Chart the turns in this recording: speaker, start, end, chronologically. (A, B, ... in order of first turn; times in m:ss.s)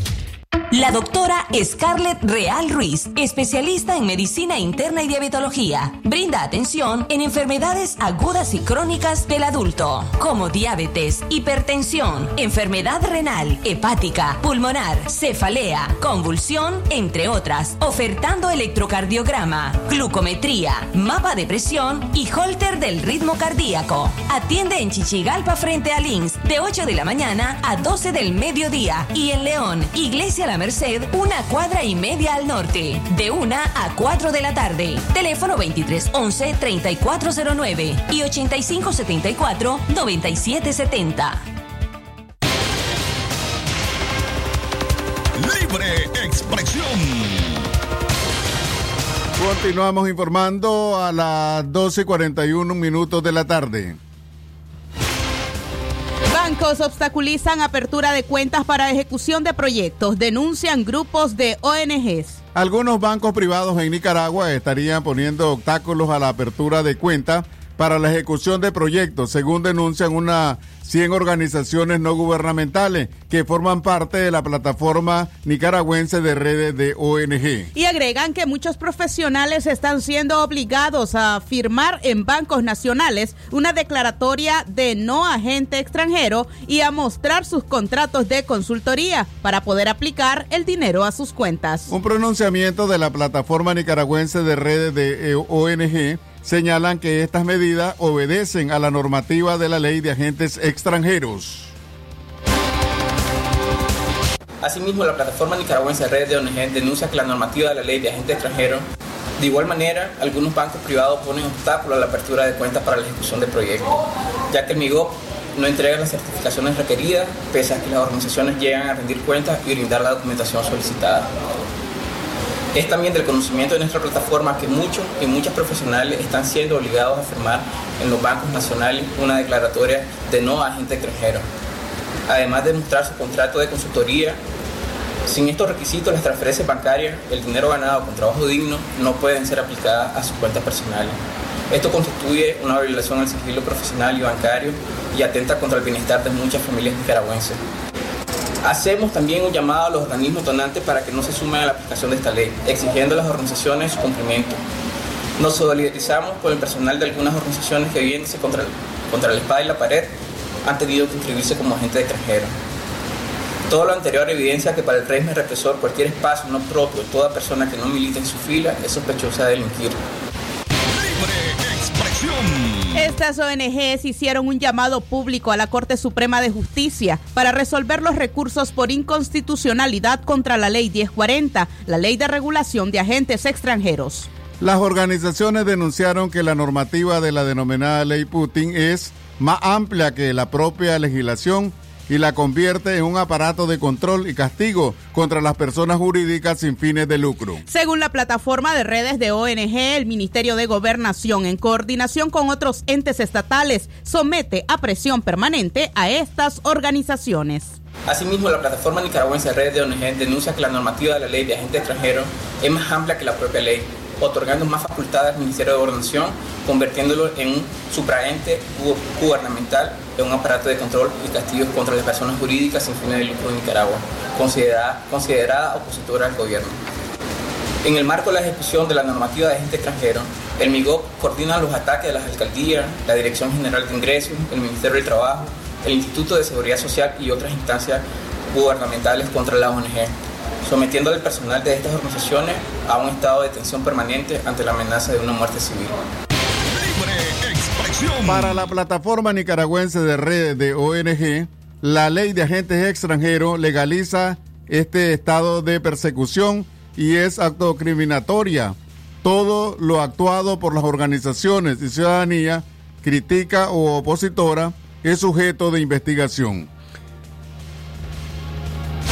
0:00.7-0:41.4 A
0:45.4-0:47.7 B
0:49.4-0:54.0 C
0:56.3-1:02.4 D
1:02.6-1:17.7 C
1:17.8-1:31.9 D
1:31.9-1:41.7 C
1:44.6-1:48.8 E
1:49.4-2:01.3 E
2:02.8-2:11.4 E
2:12.3-2:14.4 E
2:15.3-2:21.2 E
2:21.7-2:27.6 E
2:28.6-2:34.6 E
2:35.4-2:40.1 E
2:40.6-2:42.5 E
2:43.7-2:50.0 E
2:50.9-2:53.1 B
2:52.9-3:04.3 D
3:04.6-3:17.6 C
3:17.7-3:27.8 D
3:28.1-3:46.8 E
3:47.8-4:00.1 E
4:00.6-4:06.0 E
4:06.7-4:08.7 B
4:08.2-4:26.7 C